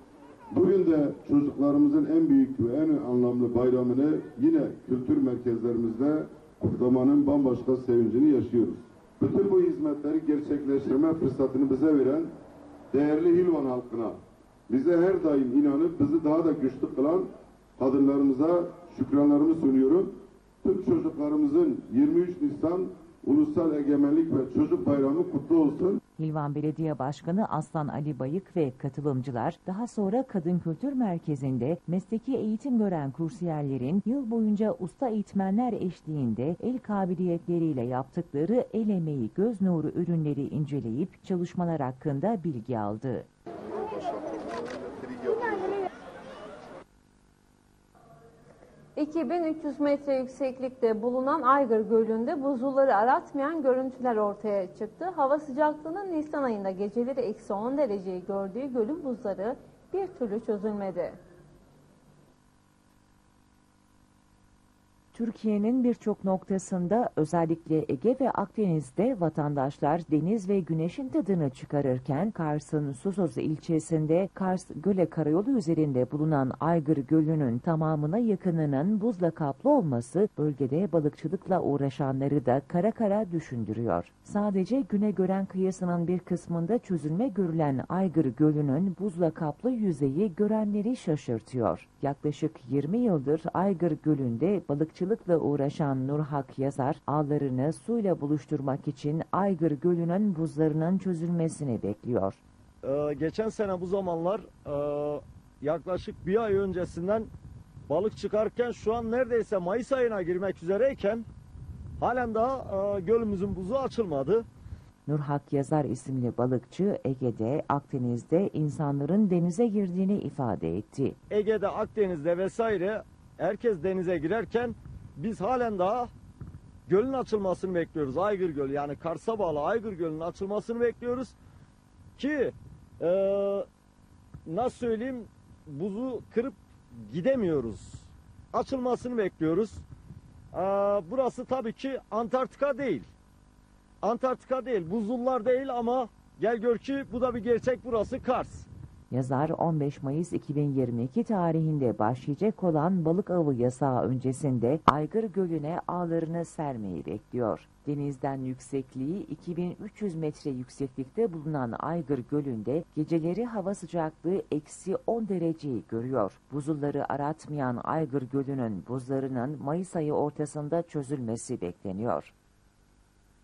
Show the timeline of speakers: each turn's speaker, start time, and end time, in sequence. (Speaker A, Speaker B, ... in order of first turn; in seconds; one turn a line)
Speaker A: 0.5-12.3
Speaker A: 12.9-14.2
Speaker A: 14.7-26.0
Speaker B: 26.2-43.3
Speaker A: 45.1-45.5
Speaker C: 49.0-61.2
Speaker B: 65.1-102.4
Speaker D: 102.8-107.3
Speaker D: 107.9-111.3
Speaker D: 112.0-114.5
Speaker B: 115.1-121.2
Speaker D: 121.3-126.1
Speaker D: 126.9-131.3
Speaker D: 132.2-133.7
Speaker D: 134.4-139.8
Speaker D: 140.5-143.1
Speaker D: 144.0-148.7
Speaker B: 149.1-172.3